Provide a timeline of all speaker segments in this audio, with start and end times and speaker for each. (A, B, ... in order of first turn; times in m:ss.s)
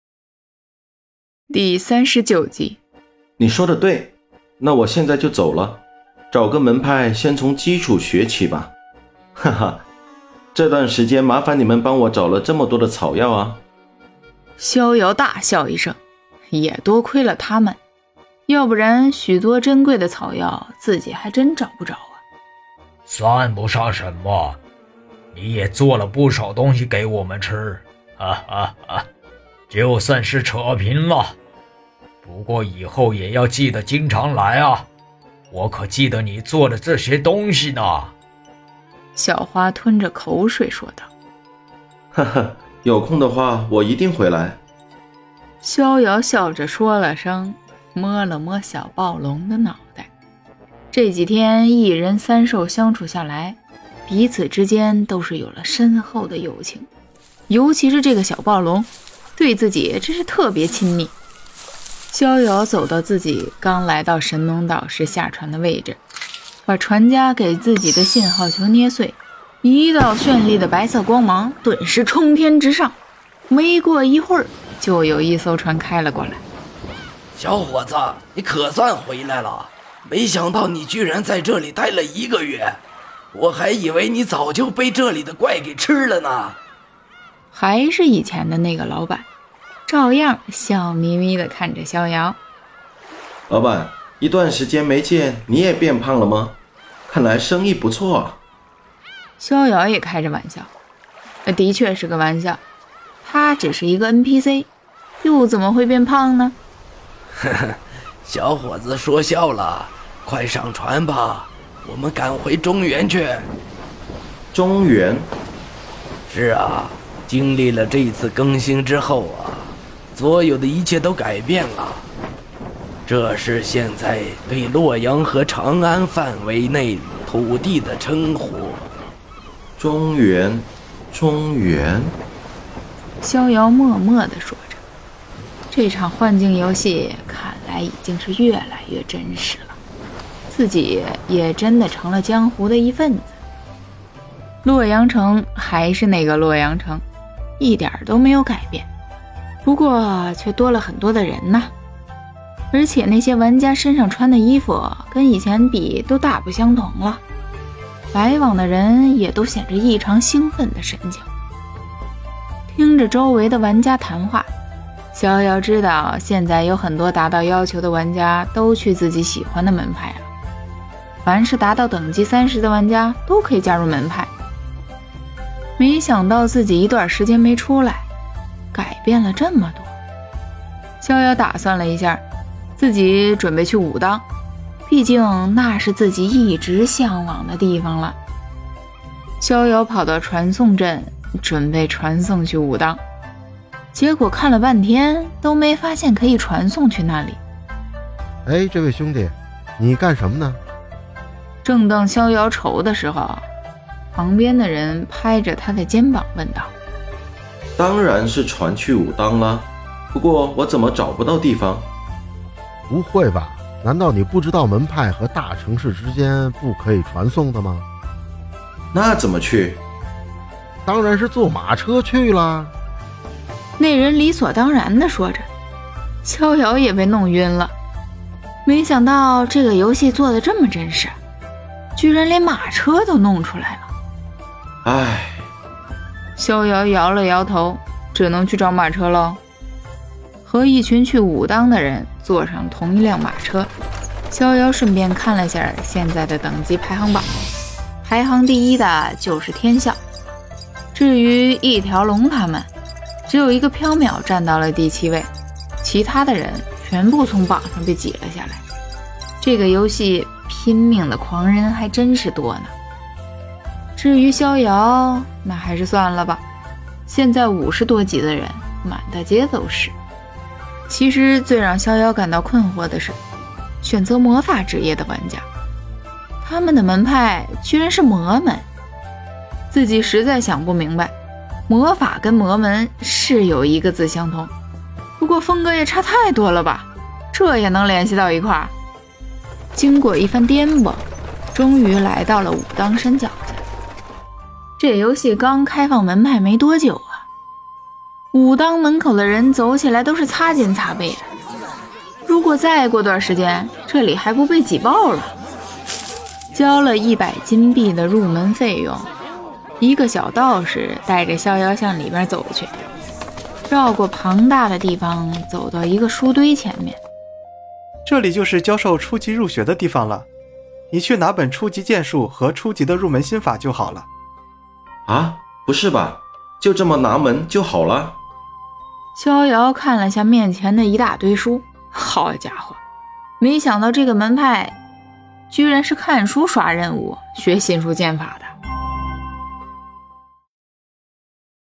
0:01.5-0:02.8 A
0:03.4-0:08.7 B
0:09.4-0:09.8 B
0:10.5-0:13.6 B
0:14.6-0:16.0 A
0:16.5-0:17.8 A
0:18.5-0:22.2 A
0:23.1-0:24.6 C
0:25.3-0:29.0 C
0:29.7-0:31.4 C
0:32.2-0:34.9 C
0:35.5-0:38.1 C
0:39.2-0:41.1 A
0:42.1-0:44.6 B
0:45.6-0:50.1 A
0:50.9-0:56.9 A
0:57.5-1:01.1 A
1:02.1-1:06.0 A
1:06.6-1:13.0 A
1:13.5-1:16.4 A
1:17.4-1:22.8 D
1:23.3-1:26.6 D
1:27.5-1:29.3 A
1:29.9-1:32.4 A
1:33.5-1:38.4 B
1:39.4-1:40.7 A
1:41.4-1:42.6 A
1:43.2-1:44.7 A
1:45.2-1:46.6 A
1:48.2-1:53.5 D
1:54.5-1:55.3 B
1:56.3-2:02.1 D
2:03.1-2:08.9 D
2:09.8-2:12.2 B
2:13.2-2:14.8 A
2:15.7-2:19.8 A
2:20.5-2:23.4 A
2:24.6-2:27.0 A
2:27.6-2:28.9 A
2:29.6-2:31.7 A
2:32.7-2:37.2 A
2:38.1-2:41.3 A
2:42.7-2:44.5 A
2:45.1-2:50.3 A
2:51.2-2:54.3 A
2:55.8-2:58.1 A
2:58.7-3:00.0 A
3:01.0-3:02.2 A
3:02.8-3:04.3 A
3:04.9-3:08.2 A
3:09.4-3:13.0 A
3:13.9-3:17.4 A
3:18.4-3:20.6 E
3:21.6-3:23.5 A
3:24.1-3:26.7 A
3:27.8-3:31.9 B
3:32.9-3:37.9 E
3:38.9-3:39.8 B
3:40.8-3:42.7 E
3:43.8-3:45.5 A
3:46.2-3:47.7 A
3:48.6-3:51.2 A
3:52.0-3:53.9 A
3:54.8-3:55.5 B
3:56.4-3:59.4 A
4:00.4-4:03.7 A
4:04.3-4:07.3 A
4:08.0-4:10.0 A
4:10.9-4:12.7 A
4:13.3-4:15.3 A
4:15.8-4:18.6 A
4:19.4-4:22.7 A
4:24.0-4:26.4 A
4:27.1-4:30.0 A
4:30.9-4:33.2 A
4:33.8-4:35.5 A
4:36.4-4:38.7 A
4:39.7-4:41.1 A
4:41.7-4:44.5 A
4:45.2-4:48.7 A
4:49.7-4:53.6 A
4:54.8-4:57.3 A
4:58.3-5:01.3 A
5:02.3-5:05.4 A
5:06.5-5:09.1 A
5:09.8-5:12.8 A
5:13.7-5:17.0 A
5:18.1-5:20.3 F
5:20.9-5:24.1 F
5:25.1-5:28.2 B
5:29.2-5:32.8 A
5:33.4-5:34.8 A
5:35.5-5:38.5 A